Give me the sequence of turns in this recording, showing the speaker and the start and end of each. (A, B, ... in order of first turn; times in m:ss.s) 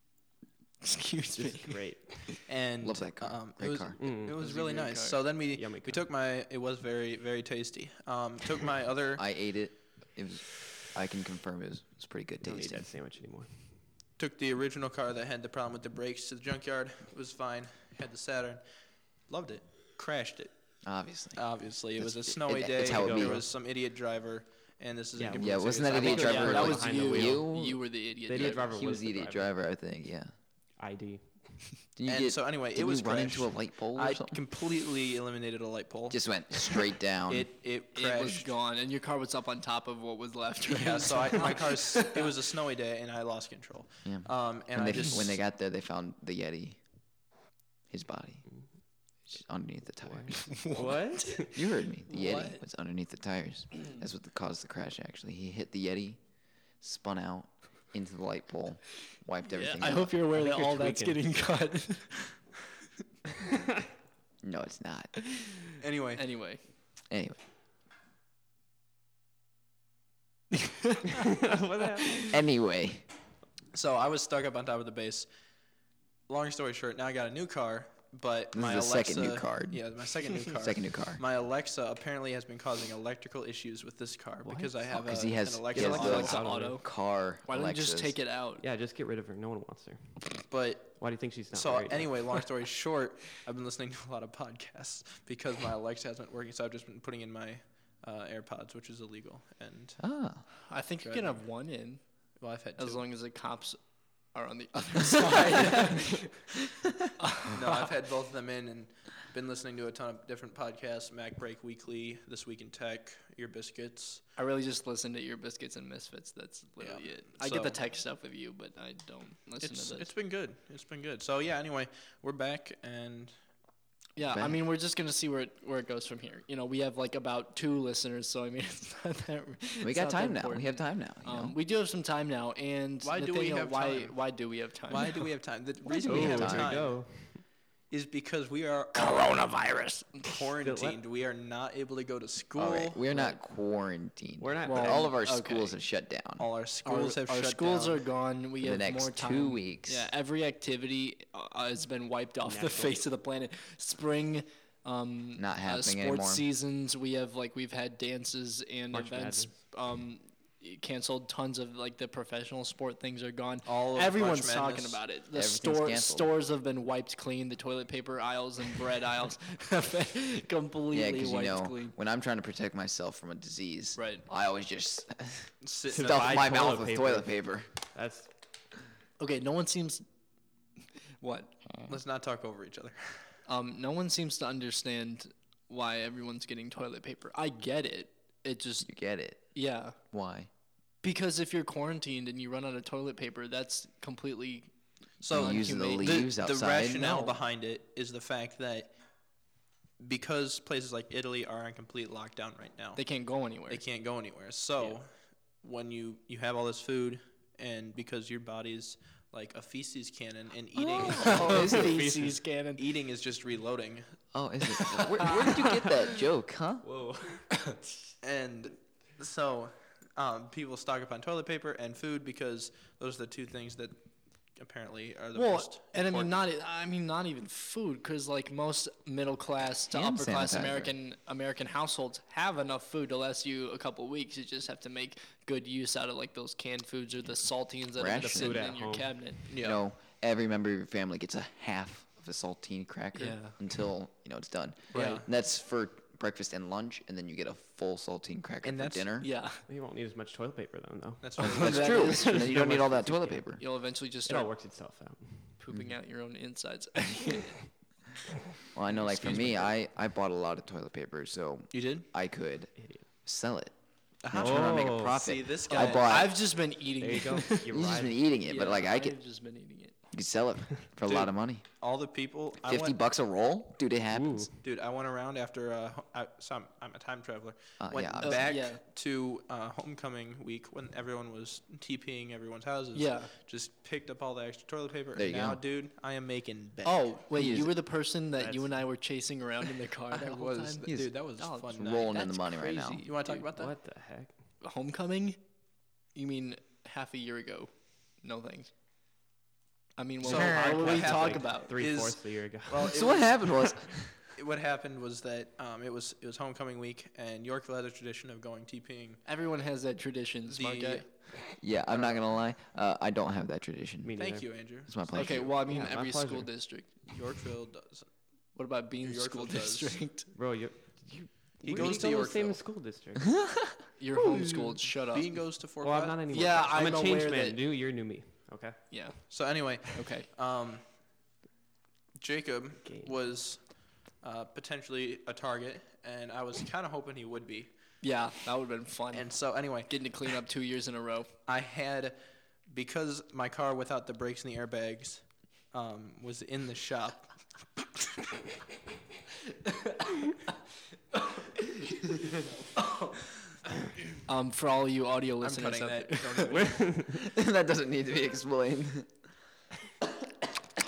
0:00.8-0:02.3 A
0:01.4-0:02.4 B
0:02.4-0:09.2 C
0:02.8-0:04.0 D
0:04.0-0:04.4 B
0:04.4-0:05.2 A
0:05.5-0:06.0 B
0:09.2-0:12.8 D
0:12.4-0:13.8 B
0:14.2-0:18.6 C
0:19.3-0:20.5 C
0:20.8-0:21.4 D
0:21.3-0:26.8 C
0:22.0-0:23.4 D
0:22.8-0:23.4 B
0:25.2-0:27.5 B
0:25.3-0:30.3 D
0:26.0-0:28.7 A
0:28.2-0:29.5 B
0:30.8-0:31.6 B
0:32.0-0:34.4 D
0:32.1-0:38.5 C
0:36.1-0:37.5 D
0:37.9-0:42.3 A
0:40.7-0:45.4 C
0:44.0-0:46.8 D
0:47.9-0:48.4 D
0:49.3-0:50.5 D
0:50.0-0:51.6 B
0:50.4-0:51.4 A
0:51.5-0:56.2 D
0:52.1-0:52.6 C
0:56.8-1:00.1 D
0:59.5-1:02.2 A
1:00.3-1:01.2 B
1:04.4-1:05.3 D
1:05.8-1:06.2 C
1:06.2-1:06.6 A
1:07.1-1:07.4 D
1:10.6-1:11.0 A
1:11.1-1:12.4 B
1:12.3-1:13.0 D
1:13.7-1:15.3 C
1:16.3-1:26.3 C
1:18.5-1:19.8 D
1:20.4-1:21.2 D
1:24.4-1:24.7 B
1:24.9-1:28.1 D
1:25.7-1:26.8 B
1:25.7-1:26.8 A
1:27.4-1:28.6 A
1:28.6-1:30.4 B
1:30.5-1:40.0 C
1:31.0-1:32.4 B
1:40.0-1:40.4 D
1:40.7-1:42.0 A
1:41.0-1:41.4 C
1:42.4-1:43.0 C
1:42.8-1:46.4 A
1:45.4-1:45.7 C
1:47.2-1:47.9 A
1:47.5-1:54.2 C
1:54.4-2:00.1 A
1:56.8-1:57.8 C
1:59.6-2:03.3 C
2:04.2-2:15.2 A
2:04.2-2:04.6 D
2:09.8-2:11.5 D
2:13.0-2:14.3 C
2:14.9-2:17.2 C
2:16.0-2:16.8 D
2:16.0-2:17.4 B
2:17.9-2:19.4 C
2:18.9-2:20.4 A
2:20.2-2:23.0 C
2:20.6-2:21.0 B
2:22.5-2:26.4 D
2:24.4-2:25.1 B
2:24.6-2:25.8 A
2:26.4-2:28.0 C
2:26.8-2:51.9 A
2:28.6-2:30.1 D
2:32.4-2:33.0 B
2:35.4-2:36.4 D
2:38.9-2:39.6 B
2:43.6-2:45.0 C
2:45.3-2:46.3 D
2:50.9-2:57.6 D
2:54.0-2:54.2 A
2:55.6-2:56.8 C
2:55.9-2:57.4 B
2:57.9-2:58.3 B
2:59.2-3:00.0 A
3:01.2-3:01.5 A
3:01.9-3:03.3 C
3:03.5-3:08.9 A
3:08.8-3:09.4 D
3:09.5-3:10.0 A
3:10.1-3:10.5 D
3:11.0-3:14.7 A
3:15.2-3:18.9 C
3:15.3-3:16.2 A
3:15.3-3:17.4 D
3:20.0-3:23.0 C
3:23.0-3:23.8 A
3:23.7-3:25.1 C
3:25.6-3:34.0 C
3:30.9-3:32.0 D
3:31.0-3:32.8 A
3:34.3-3:36.8 D
3:35.4-3:35.9 B
3:36.8-3:37.8 B
3:38.2-3:44.0 C
3:44.6-3:46.4 C
3:45.3-3:59.4 A
3:49.9-3:50.9 D
3:57.9-3:58.7 D
3:58.2-3:59.3 B
3:59.5-3:59.8 C
3:59.5-4:09.3 D
4:03.2-4:03.6 A
4:04.9-4:05.2 C
4:04.9-4:05.2 A
4:08.6-4:09.1 C
4:09.2-4:09.6 A
4:09.6-4:13.6 B
4:11.2-4:12.1 C
4:11.4-4:12.9 A
4:11.5-4:13.6 D
4:13.6-4:14.5 A
4:14.2-4:15.6 B
4:15.6-4:17.5 A
4:18.7-4:22.7 D
4:18.9-4:19.7 C
4:21.7-4:22.1 C
4:23.2-4:23.7 D
4:24.2-4:26.3 C
4:24.3-4:26.4 D
4:24.3-4:25.3 B
4:25.7-4:27.7 A
4:27.0-4:28.2 B
4:27.7-4:29.2 D
4:28.4-4:29.9 A
4:30.1-4:31.6 D
4:31.0-4:33.0 C
4:32.6-4:34.5 D
4:34.1-4:34.5 B
4:34.6-4:47.1 C
4:37.8-4:38.5 D
4:38.2-4:38.8 A
4:42.9-4:43.3 A
4:45.2-4:45.6 D
4:46.8-4:53.4 A
4:47.3-4:47.7 D
4:48.4-4:48.7 B
4:50.1-4:52.2 C
4:50.9-4:51.1 D
4:51.7-4:53.0 D
4:53.0-4:53.7 C
4:53.5-4:54.3 B
4:54.6-4:55.4 A
4:56.1-4:58.7 A
5:00.0-5:01.7 A
5:00.2-5:03.7 C
5:00.3-5:00.8 D
5:00.3-5:03.7 B
5:02.8-5:04.1 D
5:04.2-5:09.2 C
5:09.2-5:11.0 A
5:10.5-5:11.3 C
5:11.6-5:14.1 D
5:11.9-5:12.2 C
5:14.0-5:14.4 B
5:14.2-5:15.0 C
5:14.8-5:15.6 D
5:15.1-5:17.1 A
5:15.2-5:16.5 B
5:17.0-5:18.1 C
5:18.5-5:20.3 A
5:19.0-5:20.0 C
5:20.3-5:23.4 B
5:21.6-5:22.6 C
5:23.3-5:23.7 D
5:24.0-5:25.3 A
5:24.1-5:24.8 B
5:25.1-5:26.5 C
5:25.8-5:28.8 B
5:26.3-5:27.6 A
5:28.9-5:29.3 A
5:29.3-5:30.8 C
5:29.9-5:30.3 A
5:32.2-5:33.7 C
5:32.8-5:33.1 B
5:34.2-5:37.7 C
5:38.0-5:39.3 A
5:39.1-5:40.0 C
5:39.9-5:41.3 A
5:41.5-5:42.2 C
5:42.7-5:47.3 C
5:52.8-5:53.1 A
5:54.2-5:56.6 A
5:55.4-5:56.9 C
5:56.5-5:57.2 B
5:57.1-5:59.1 D